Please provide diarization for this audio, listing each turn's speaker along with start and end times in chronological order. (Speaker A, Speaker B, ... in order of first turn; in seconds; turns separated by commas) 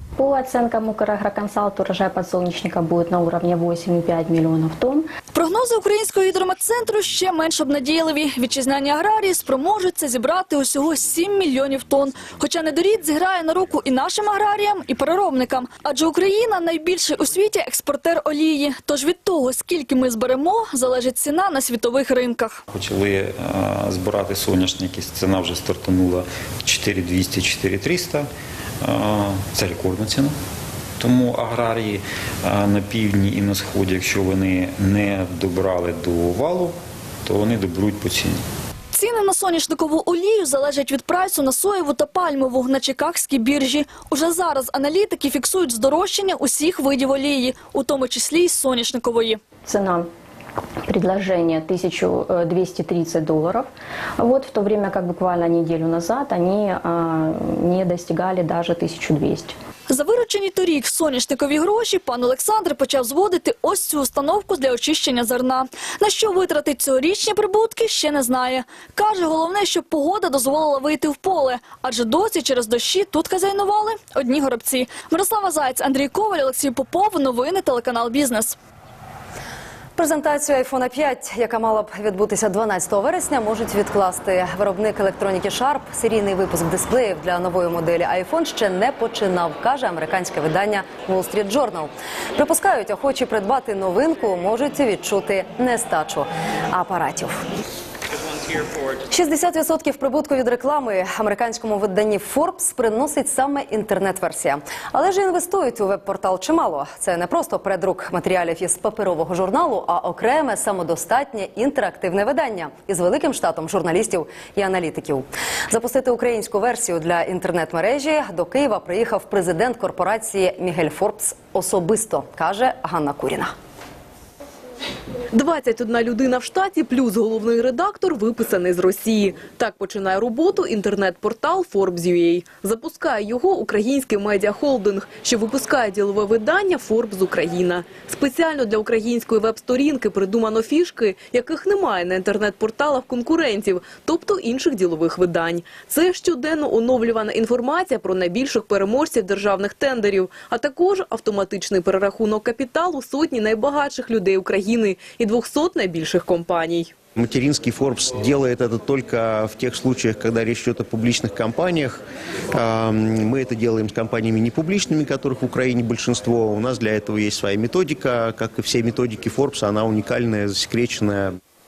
Speaker A: 0.2-5.1, Speaker B: 5.3-22.6, Speaker C: 22.7-28.3, Speaker C: 28.8-30.3, Speaker C: 31.0-38.4, Speaker B: 38.9-49.4, Speaker A: 49.6-50.1, Speaker A: 50.9-53.7, Speaker A: 54.2-59.5, Speaker B: 59.9-78.6, Speaker D: 80.0-97.4, Speaker D: 99.1-123.5, Speaker E: 125.3-156.9, Speaker F: 157.2-171.3